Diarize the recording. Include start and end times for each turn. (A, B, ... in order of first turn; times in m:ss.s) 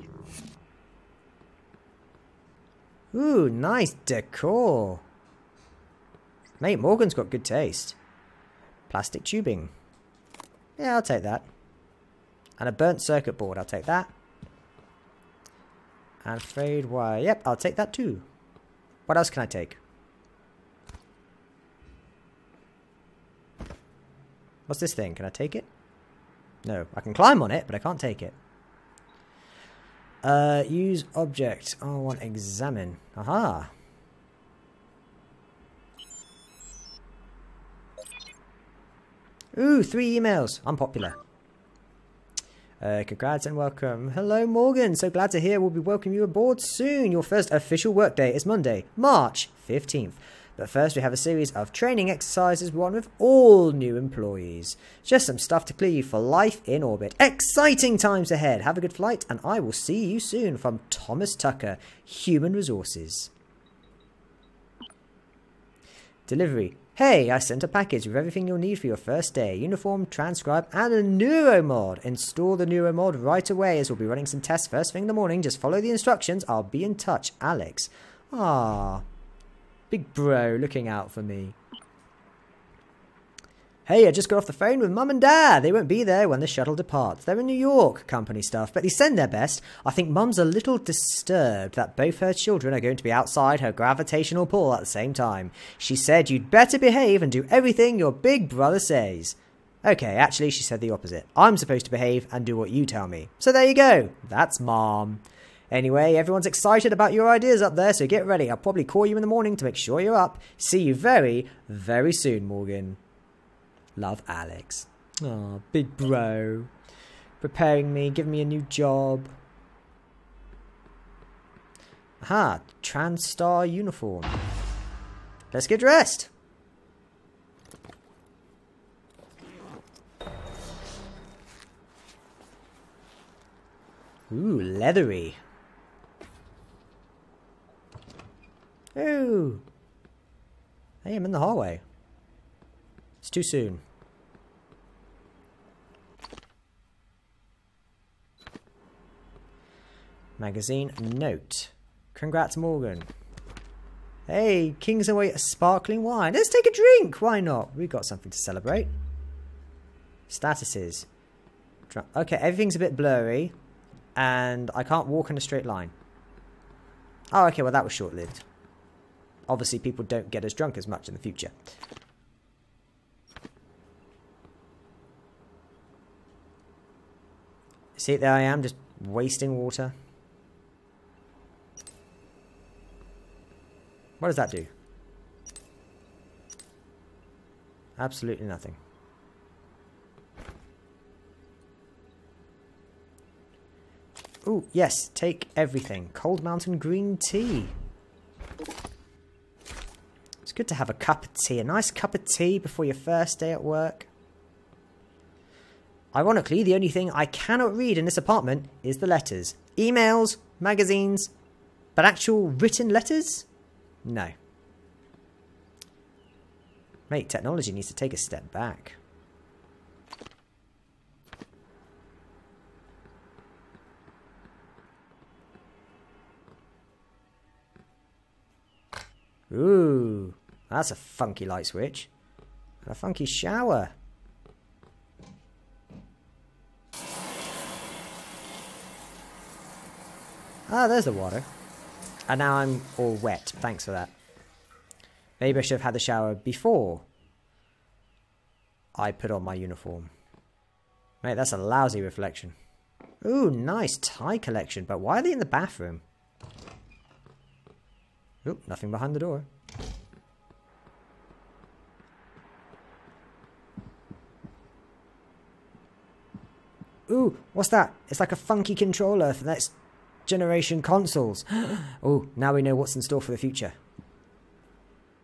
0:03.1-0:05.0 A
0:06.6-0:08.0 A
0:08.9-0:09.7 A
0:10.8-0:11.5 A
0:12.6-0:14.1 A
0:16.2-0:18.2 A
0:19.1-0:19.8 A
0:24.7-0:25.7 A
0:26.6-0:28.3 A
0:30.2-0:33.7 A
0:39.5-0:41.2 A
0:42.8-1:03.3 A
1:06.3-1:19.0 A
1:19.9-1:21.6 A
1:23.9-1:53.0 A
1:54.0-1:56.7 A
1:57.4-1:59.3 A
2:02.2-2:04.4 A
2:05.5-2:06.3 A
2:14.3-2:15.4 A
2:19.0-2:19.6 A
2:21.0-2:21.8 A
2:23.2-2:23.8 A
2:30.4-2:33.1 A
2:34.3-2:38.9 A
2:40.3-2:41.1 A
2:41.9-2:43.5 A
2:44.2-2:45.9 A
2:47.3-2:48.4 A
2:49.5-2:51.5 A
2:58.0-2:59.9 A
3:04.2-3:04.7 A
3:08.0-3:08.8 A
3:14.4-3:17.7 A
3:20.4-3:24.1 A
3:26.1-3:31.3 A
3:32.0-3:33.5 A
3:34.0-3:34.3 A
3:37.1-3:39.0 A
3:49.5-3:52.1 A
3:52.8-3:53.9 A
4:00.7-4:01.4 A
4:02.3-4:04.1 A
4:05.4-4:07.0 A
4:09.0-4:10.1 A
4:11.2-4:12.5 A
4:13.2-4:16.0 A
4:18.4-4:19.4 A
4:27.1-4:29.7 A
4:30.3-4:33.7 A